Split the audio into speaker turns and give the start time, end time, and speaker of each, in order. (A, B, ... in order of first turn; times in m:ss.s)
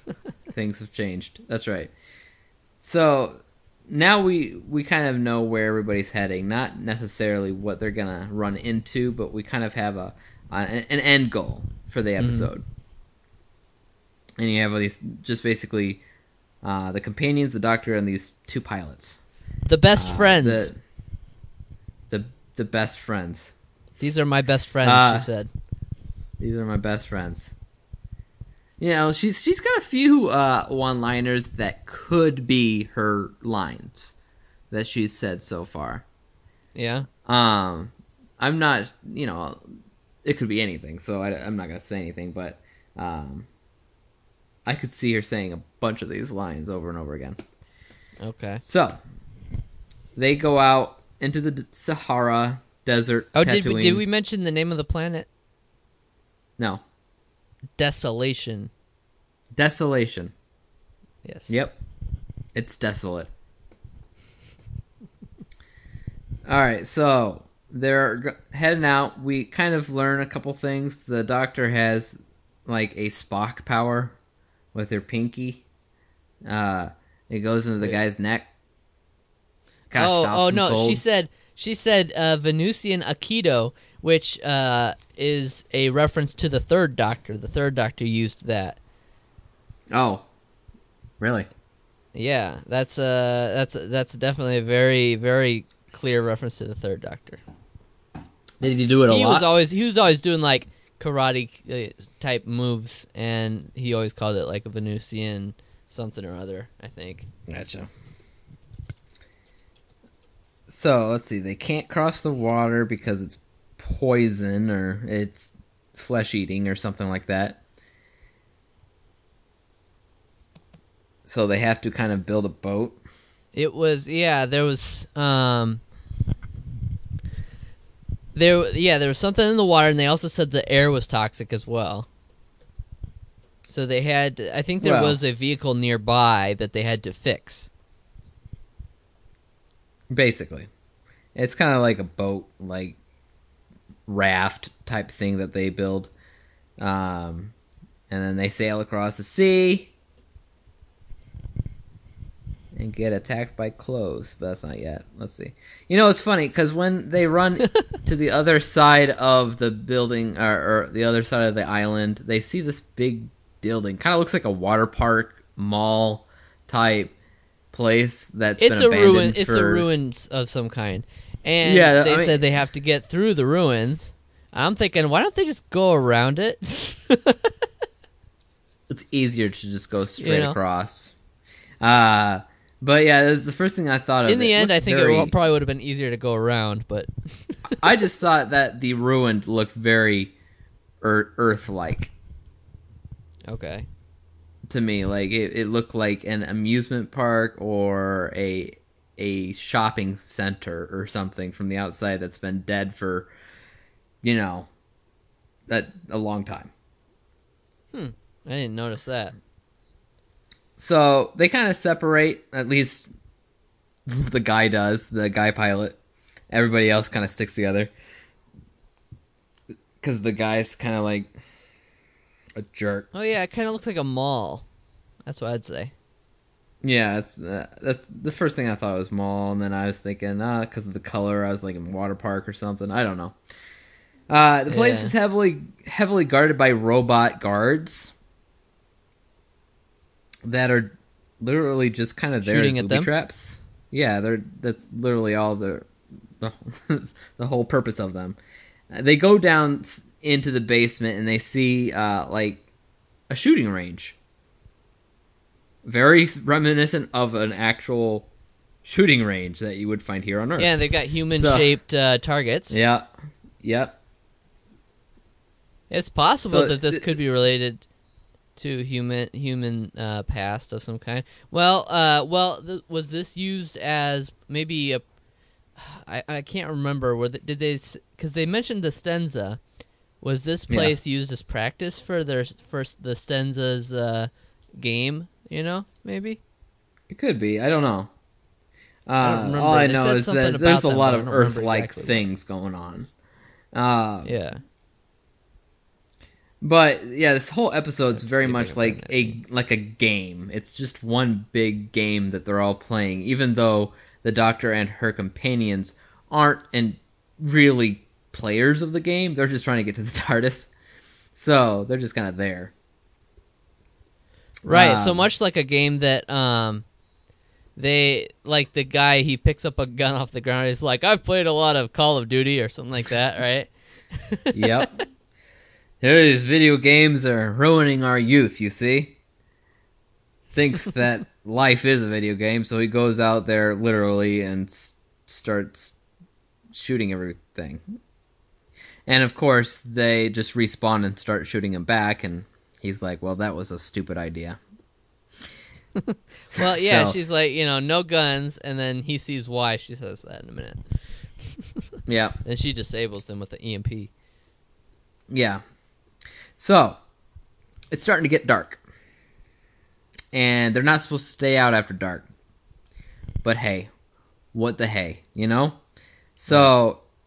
0:00.5-0:01.9 A
0:02.8-0:12.6 A
0:12.2-0:12.5 B
0:14.4-0:16.0 A
0:16.6-0:19.2 A
0:19.6-0:20.7 B
0:20.0-0:20.8 A
0:22.1-0:23.5 A
0:24.0-0:25.5 B
0:24.8-0:25.3 A
0:26.4-0:27.5 A
0:28.8-0:34.1 A
0:34.7-0:36.0 A
0:36.8-0:37.1 B
0:37.2-0:39.6 A
0:40.2-0:43.5 A
0:44.6-0:47.4 A
0:48.2-0:48.6 B
0:48.6-0:49.0 A
0:50.2-0:54.0 A
0:53.3-0:55.3 B
0:57.8-0:58.7 B
0:59.5-1:00.3 A
1:01.2-1:01.5 B
1:01.5-1:01.8 A
1:02.5-1:03.3 A
1:06.4-1:14.2 A
1:14.7-1:15.6 A
1:16.4-1:18.5 A
1:19.9-1:21.0 A
1:20.0-1:28.8 B
1:29.9-1:30.2 A
1:31.2-1:31.5 A
1:32.1-1:37.4 B
1:38.6-1:39.4 A
1:39.1-1:47.3 B
1:47.5-1:47.9 A
1:50.7-1:57.6 A
2:01.2-2:03.0 A
2:03.5-2:05.8 B
2:08.3-2:12.1 B
2:13.7-2:17.7 B
2:14.8-2:15.2 A
2:20.1-2:20.7 A
2:21.3-2:23.0 A
2:24.1-2:26.1 A
2:26.8-2:27.5 A
2:28.1-2:29.9 A
2:32.7-2:47.1 A
2:47.7-2:49.9 A
2:48.6-2:57.5 B
2:51.6-2:52.4 A
2:58.9-3:01.1 A
3:00.2-3:00.6 B
3:01.8-3:05.3 A
3:04.2-3:07.7 B
3:07.7-3:10.3 A
3:11.0-3:12.1 A
3:13.5-3:13.8 B
3:14.7-3:23.3 A
3:24.2-3:24.7 A
3:25.7-3:26.7 A
3:27.9-3:29.3 B
3:30.8-3:33.1 A
3:34.1-3:36.0 A
3:36.5-3:37.9 A
3:40.0-3:41.3 A
3:42.6-3:43.1 A
3:43.1-3:44.6 B
3:45.2-3:45.9 B
3:46.8-3:53.4 A
3:54.3-3:58.1 A
3:54.7-3:55.1 B
4:00.4-4:05.9 A
4:02.4-4:03.1 B
4:06.4-4:08.4 A
4:08.9-4:12.6 A
4:13.3-4:14.2 A
4:15.8-4:18.3 A
4:18.8-4:20.7 A
4:20.6-4:22.8 B
4:21.3-4:21.7 A
4:22.7-4:23.1 A
4:23.6-4:24.0 A
4:25.9-4:27.8 B
4:26.5-4:27.2 A
4:28.6-4:35.0 B
4:35.8-4:39.6 B
4:40.2-4:46.4 B
4:47.1-4:48.1 A
4:49.1-4:53.1 A
4:49.2-4:52.2 B
4:53.7-4:54.3 A
4:54.2-4:54.6 B
4:56.6-5:10.7 A
4:58.1-4:59.4 B
5:11.3-5:12.7 A
5:14.6-5:15.2 A
5:14.7-5:16.8 B
5:17.8-5:24.9 B
5:24.5-5:25.0 A
5:26.0-5:29.2 A
5:30.5-5:35.9 A
5:36.7-5:37.8 A
5:39.0-5:44.6 A
5:46.0-5:50.8 B
5:46.5-5:47.2 A
5:52.1-5:52.4 A
5:52.4-5:54.1 B
5:55.3-5:55.6 A
5:56.6-5:57.0 A
5:57.9-5:58.8 A
6:00.3-6:02.3 A
6:03.4-6:03.9 A
6:04.5-6:05.8 A
6:06.4-6:07.0 A